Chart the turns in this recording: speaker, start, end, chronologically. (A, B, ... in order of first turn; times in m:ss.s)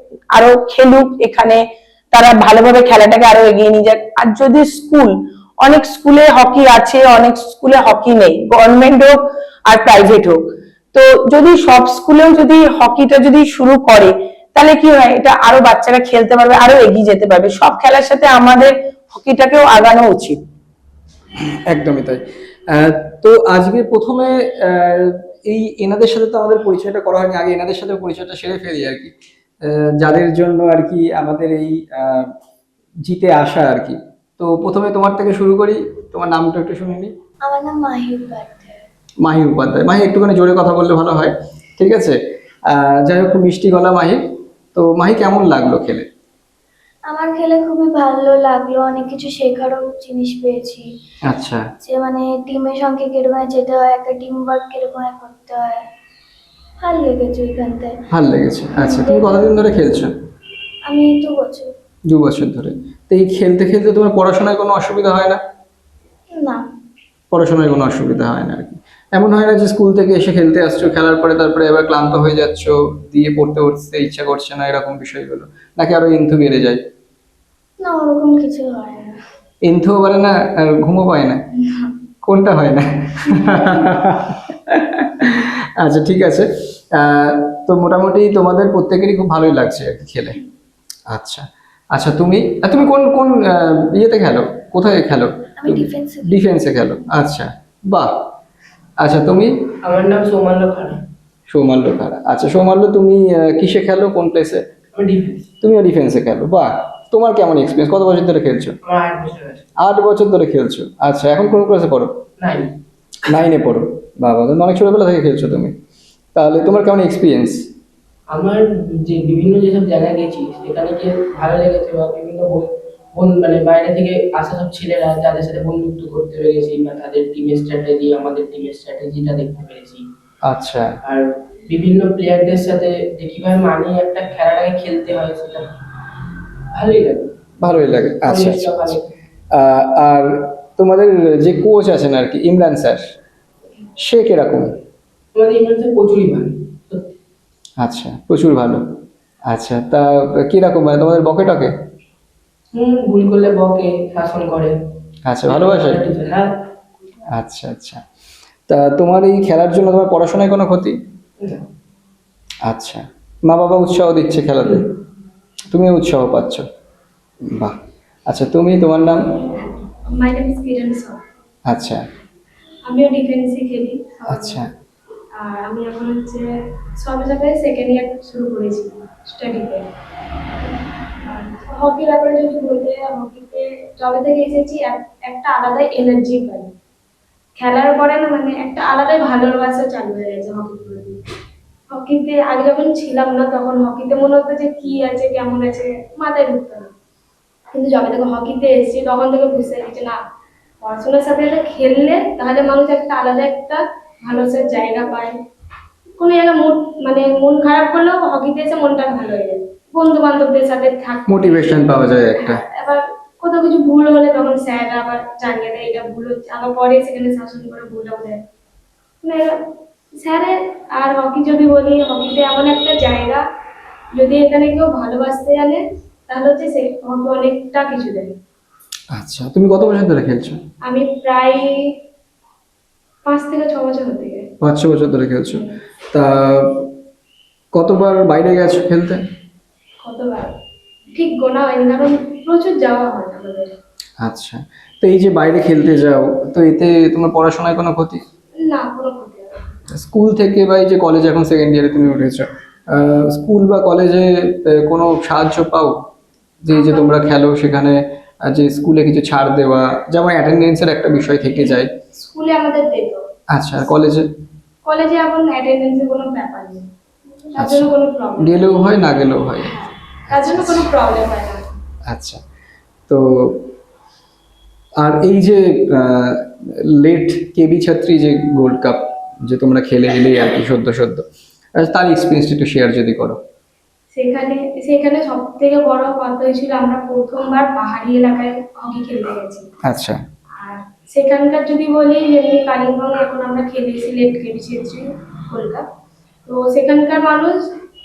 0:00.3-0:10.4 A
0:10.9-0:20.4 A
0:21.5-0:29.1 B
0:29.6-0:32.3 B
0:33.0-0:37.1 B
0:37.4-0:38.8 C
0:39.2-0:42.2 B
0:42.7-0:44.2 B
0:44.7-0:46.1 B
0:47.1-0:50.8 C
0:51.3-0:51.6 B
0:51.8-0:55.8 C
0:56.8-0:57.9 C
0:58.1-1:00.1 B
0:58.7-0:59.7 C
1:00.8-1:01.7 C
1:02.1-1:05.4 B
1:06.3-1:06.6 C
1:07.3-1:16.8 B
1:17.8-1:19.2 C
1:19.6-1:21.4 B
1:22.2-1:30.4 B
1:31.1-1:38.1 B
1:35.6-1:36.3 C
1:39.0-1:39.5 B
1:39.8-1:41.0 D
1:41.5-1:44.6 B
1:44.9-1:45.4 D
1:45.6-1:48.7 B
1:48.8-1:49.6 D
1:49.8-1:52.1 B
1:52.4-1:52.7 D
1:53.2-1:55.7 B
1:56.3-1:57.6 B
1:58.3-2:10.0 D
2:10.4-2:10.9 B
2:11.0-2:15.6 D
2:16.7-2:17.3 D
2:17.6-2:18.8 B
2:18.2-2:19.1 D
2:19.5-2:23.0 B
2:24.0-2:24.7 B
2:25.3-2:27.0 D
2:27.8-2:28.8 B
2:29.5-2:31.7 B
2:32.7-2:34.7 D
2:35.2-2:36.0 B
2:35.5-2:36.5 D
2:37.3-2:38.0 B
2:38.7-2:41.0 B
2:42.6-2:44.8 B
2:45.7-2:46.6 B
2:47.5-2:47.8 B
2:48.3-2:49.2 B
2:49.6-2:51.2 E
2:51.7-2:52.0 B
2:52.8-2:54.6 E
2:54.3-2:54.7 B
2:55.4-2:56.5 E
2:57.0-2:59.8 E
3:00.6-3:06.7 E
3:07.6-3:11.2 E
3:11.9-3:16.9 E
3:17.7-3:20.2 E
3:20.8-3:25.3 E
3:26.2-3:38.4 E
3:31.3-3:32.6 B
3:39.2-3:39.6 E
3:40.2-3:43.4 E
3:44.1-3:48.3 E
3:49.1-3:50.6 B
3:50.8-3:51.9 E
3:53.2-3:54.5 E
3:54.6-3:56.8 B
3:57.7-3:59.2 B
4:00.0-4:00.5 E
4:01.1-4:03.7 E
4:04.2-4:08.2 B
4:08.6-4:09.7 E
4:09.9-4:15.9 B
4:16.6-4:21.9 B
4:16.7-4:17.1 E
4:22.2-4:23.2 E
4:23.5-4:24.3 B
4:24.8-4:26.8 E
4:27.5-4:28.7 E
4:27.6-4:27.9 B
4:28.4-4:30.9 B
4:29.6-4:31.7 E
4:32.1-4:32.4 B
4:33.1-4:33.6 B
4:35.0-4:41.2 B
4:41.8-4:43.4 B
4:44.1-4:49.6 E
4:49.8-4:50.2 B
4:50.6-4:55.8 E
4:56.5-4:57.6 E